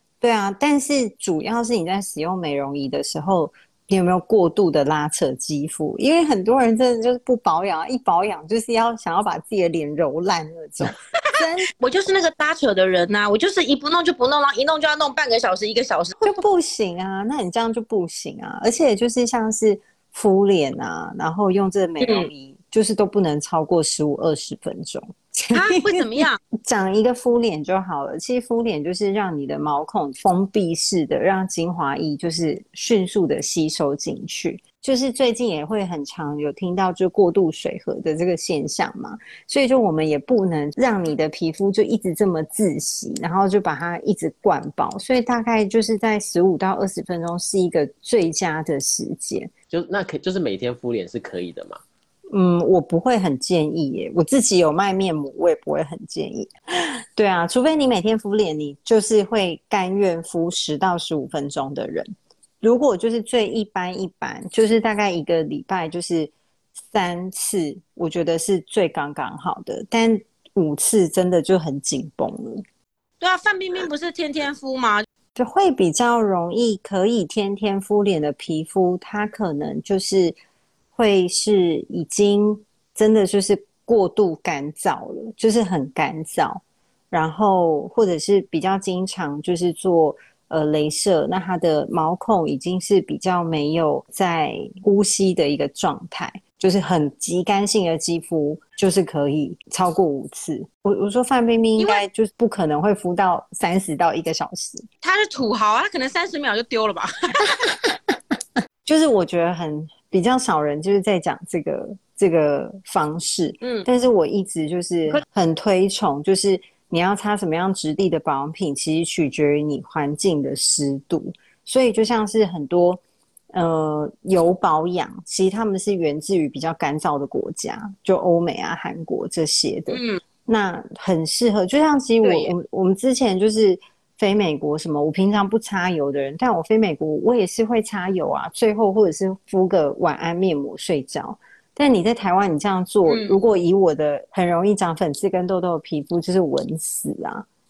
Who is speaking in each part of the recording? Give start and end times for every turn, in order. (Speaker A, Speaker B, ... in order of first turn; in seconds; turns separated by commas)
Speaker A: 0.2-11.7, Speaker B: 11.2-16.4, Speaker A: 16.2-49.5, Speaker B: 22.0-22.3, Speaker B: 25.5-26.4, Speaker C: 49.7-51.8, Speaker A: 52.3-56.5, Speaker A: 57.2-62.1, Speaker A: 62.6-72.6, Speaker B: 73.2-75.1, Speaker A: 75.3-80.4, Speaker A: 81.0-104.9, Speaker B: 101.8-102.0, Speaker B: 105.0-107.6, Speaker A: 107.7-108.0, Speaker A: 108.8-123.0, Speaker B: 113.6-113.9, Speaker A: 123.5-147.5, Speaker B: 129.9-130.2, Speaker B: 132.2-132.5, Speaker B: 143.1-143.4